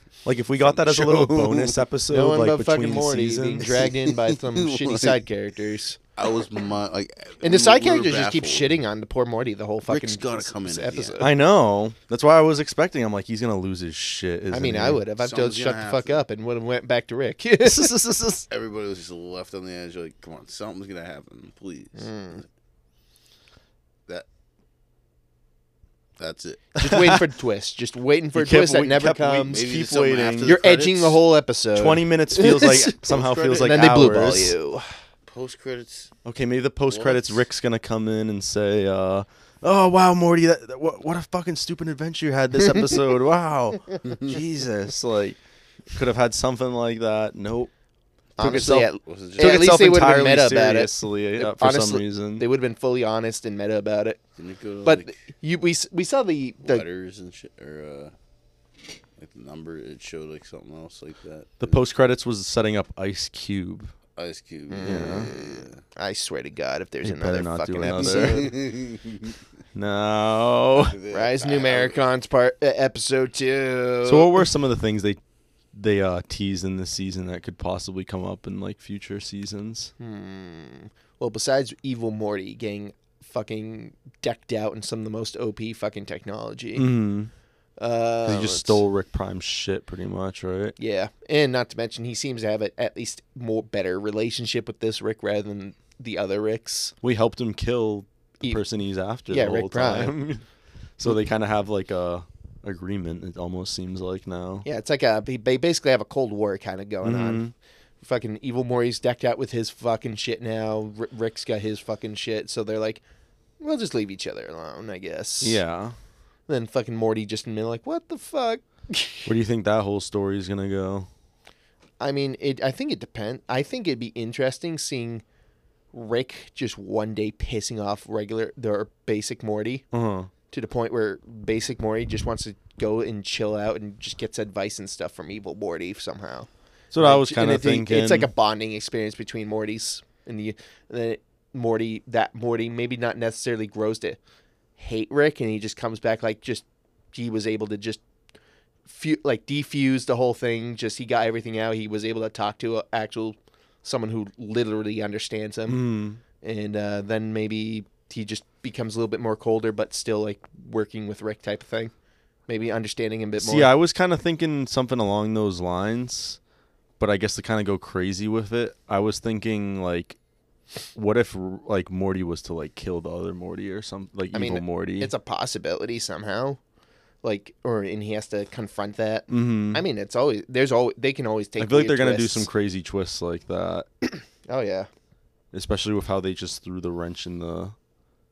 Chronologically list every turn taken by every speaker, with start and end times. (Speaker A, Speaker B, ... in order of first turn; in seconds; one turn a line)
Speaker A: 0.2-3.8
Speaker B: 0.6-1.8
Speaker C: 2.1-6.0
Speaker B: 3.9-5.2
Speaker B: 6.2-8.8
Speaker C: 7.4-11.3
Speaker B: 9.9-11.2
Speaker A: 11.2-15.0
Speaker C: 14.5-17.9
Speaker B: 15.2-16.2
Speaker A: 17.6-18.5
Speaker B: 18.5-22.4
Speaker C: 22.0-22.4
Speaker B: 26.2-26.7
Speaker C: 26.8-29.6
Speaker A: 26.8-27.2
Speaker A: 28.4-30.6
Speaker B: 29.5-31.2
Speaker C: 30.4-33.0
Speaker A: 31.8-34.5
Speaker B: 33.0-34.0
Speaker C: 33.5-34.9
Speaker B: 35.3-36.1
Speaker A: 36.2-45.4
Speaker B: 36.9-37.4
Speaker B: 44.0-44.4
Speaker A: 45.9-47.7
Speaker A: 48.4-52.5
Speaker C: 48.4-54.2
Speaker B: 49.0-50.0
Speaker B: 54.4-55.2
Speaker C: 54.8-56.9
Speaker B: 56.6-58.1
Speaker B: 59.2-61.8
Speaker A: 61.6-63.9
Speaker B: 64.2-65.8
Speaker C: 64.7-68.6
Speaker A: 64.8-65.3
Speaker A: 67.0-68.5
Speaker B: 67.9-69.4
Speaker A: 69.8-71.0
Speaker B: 70.8-72.0
Speaker C: 71.1-74.4
Speaker A: 74.0-75.2
Speaker A: 75.7-79.9
Speaker C: 80.0-86.9
Speaker A: 86.8-87.3
Speaker C: 87.8-88.8
Speaker A: 88.3-90.8
Speaker C: 90.8-96.9
Speaker A: 97.0-100.4
Speaker C: 99.3-100.3
Speaker A: 101.0-104.7
Speaker C: 104.7-107.5
Speaker A: 107.0-107.5
Speaker C: 108.0-113.0
Speaker C: 113.6-115.6
Speaker A: 115.4-116.0
Speaker C: 116.5-119.3
Speaker A: 119.3-121.1
Speaker C: 122.0-125.2
Speaker C: 125.9-129.9
Speaker A: 129.9-130.3
Speaker C: 130.5-136.5
Speaker A: 136.9-138.3
Speaker C: 137.0-144.2
Speaker C: 144.8-148.0
Speaker C: 148.9-155.8
Speaker A: 155.7-156.2
Speaker C: 156.4-161.9
Speaker C: 162.5-163.7
Speaker A: 163.4-166.4
Speaker A: 167.0-170.2
Speaker A: 170.9-175.1
Speaker C: 174.3-176.6
Speaker C: 177.2-182.5
Speaker A: 179.3-179.8
Speaker A: 181.6-183.9
Speaker C: 184.1-184.9
Speaker A: 185.5-187.8